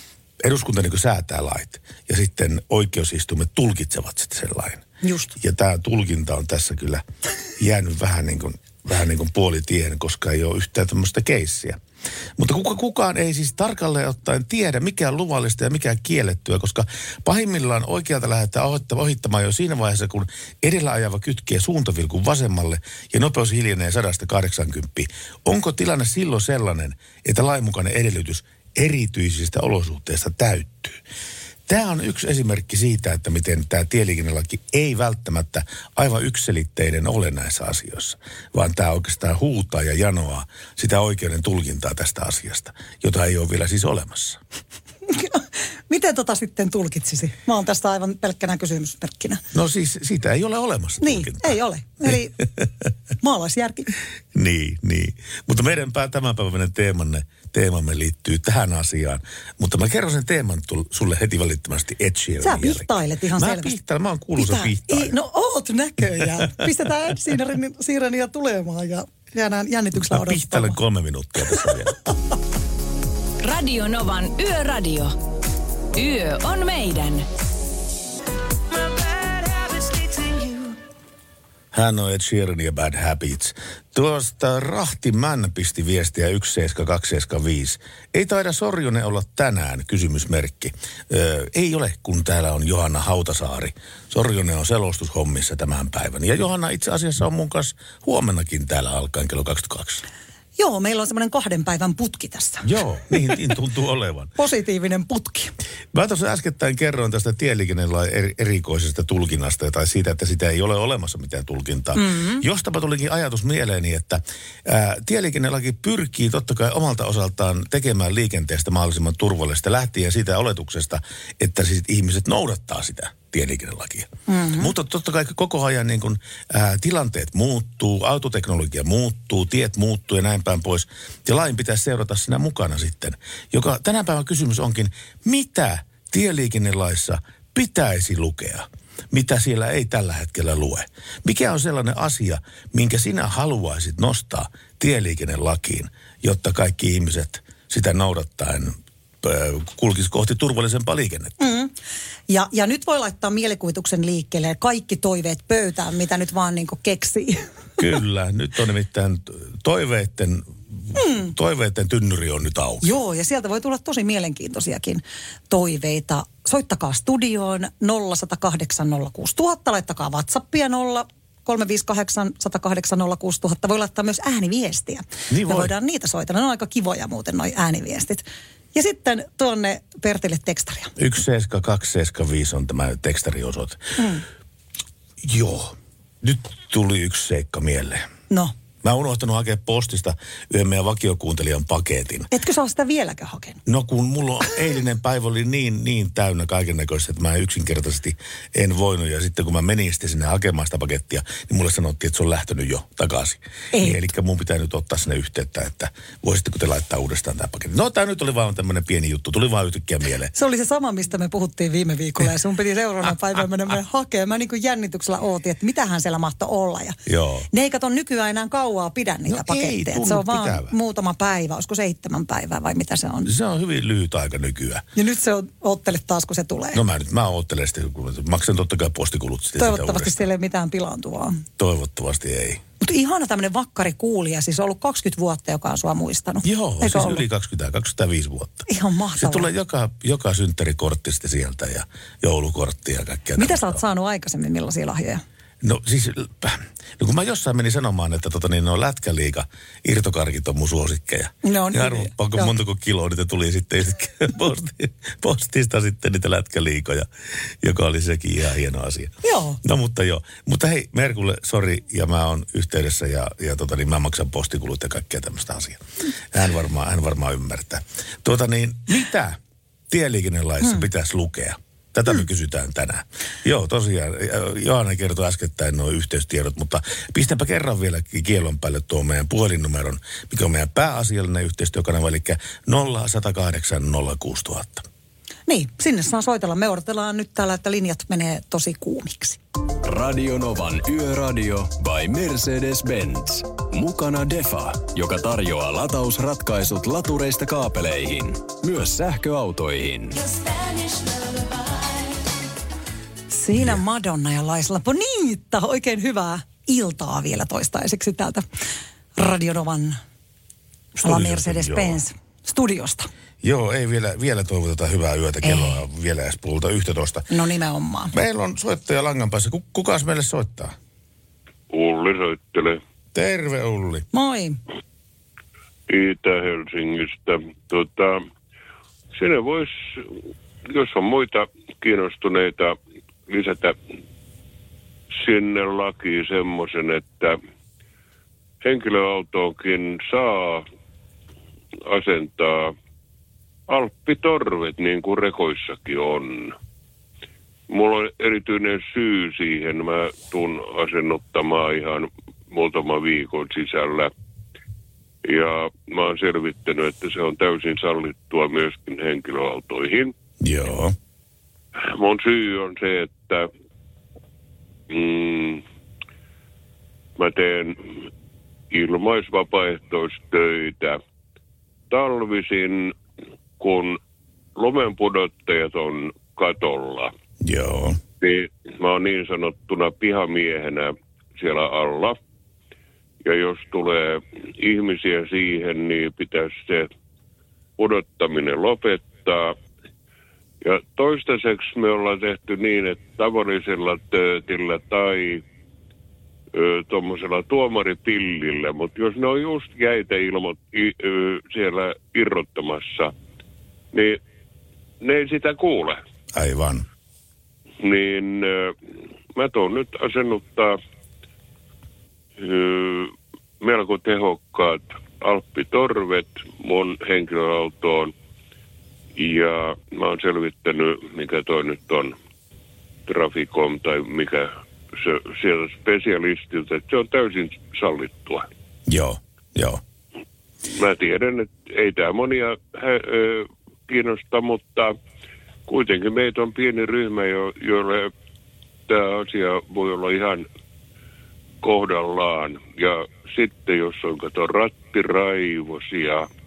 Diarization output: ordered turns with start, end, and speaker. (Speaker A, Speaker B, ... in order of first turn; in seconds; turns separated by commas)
Speaker A: 0.4-4.8, Speaker B: 5.0-5.3, Speaker A: 5.4-7.0, Speaker A: 7.6-11.8, Speaker A: 12.4-31.0, Speaker A: 31.7-44.4, Speaker B: 45.1-49.4, Speaker A: 49.5-52.7, Speaker B: 51.0-52.3, Speaker B: 53.2-53.9, Speaker A: 54.3-65.2, Speaker B: 62.4-63.7, Speaker B: 64.4-70.8, Speaker A: 69.9-72.1, Speaker C: 73.4-75.1, Speaker C: 75.9-77.3, Speaker A: 81.7-100.0, Speaker B: 100.6-102.6, Speaker A: 102.6-104.3, Speaker B: 104.4-105.5, Speaker A: 105.9-151.3, Speaker B: 111.9-112.4, Speaker B: 124.3-124.7, Speaker B: 151.4-151.7, Speaker B: 152.3-157.4, Speaker A: 157.8-162.9, Speaker B: 160.9-161.3, Speaker B: 162.8-180.9, Speaker A: 175.3-175.7, Speaker A: 181.0-183.8, Speaker B: 184.0-184.2, Speaker A: 185.2-188.1, Speaker A: 188.8-192.3, Speaker B: 192.3-193.6, Speaker A: 193.7-210.3, Speaker B: 203.7-204.0, Speaker B: 210.3-217.0, Speaker A: 217.1-217.4, Speaker B: 217.5-223.3, Speaker A: 219.3-220.7, Speaker A: 223.2-224.8, Speaker B: 224.9-226.8, Speaker A: 226.7-230.2, Speaker B: 229.6-231.4, Speaker A: 231.6-232.6, Speaker B: 232.8-237.2, Speaker A: 236.4-243.8, Speaker B: 238.7-239.5, Speaker B: 243.3-245.2, Speaker A: 245.6-265.8, Speaker B: 251.4-252.5, Speaker B: 259.2-259.6, Speaker A: 266.3-269.4, Speaker A: 269.9-284.9, Speaker B: 285.5-289.4, Speaker D: 289.8-300.2, Speaker B: 303.3-308.4, Speaker B: 309.1-310.0, Speaker A: 311.0-312.0, Speaker B: 311.0-313.1, Speaker A: 313.4-317.3, Speaker B: 315.4-315.8, Speaker B: 317.3-318.1, Speaker A: 318.1-320.7, Speaker E: 321.7-322.8, Speaker A: 323.1-324.1, Speaker B: 324.1-324.6, Speaker E: 325.9-328.2, Speaker E: 329.1-330.1, Speaker E: 330.6-332.8, Speaker E: 333.3-333.8, Speaker E: 335.1-337.4, Speaker E: 338.6-340.6, Speaker E: 341.9-342.7, Speaker E: 343.7-346.6, Speaker E: 347.7-354.1, Speaker E: 355.2-360.1, Speaker A: 360.4-360.9, Speaker E: 361.8-363.5, Speaker E: 364.9-365.6, Speaker E: 367.2-368.1, Speaker E: 368.7-371.0, Speaker E: 371.9-372.9, Speaker E: 373.6-374.0, Speaker E: 374.6-377.1, Speaker A: 377.4-378.0, Speaker E: 378.2-382.2, Speaker E: 383.2-386.9, Speaker E: 387.8-389.6, Speaker E: 390.6-395.4, Speaker E: 396.5-403.1, Speaker E: 403.9-404.2, Speaker E: 405.0-406.0, Speaker A: 406.3-406.8, Speaker E: 407.8-408.7, Speaker E: 409.4-410.8, Speaker E: 412.4-418.1, Speaker E: 419.1-422.1, Speaker E: 423.1-428.5, Speaker A: 428.9-429.8, Speaker E: 430.7-434.9, Speaker E: 435.7-438.1, Speaker E: 438.9-440.4, Speaker E: 441.6-446.3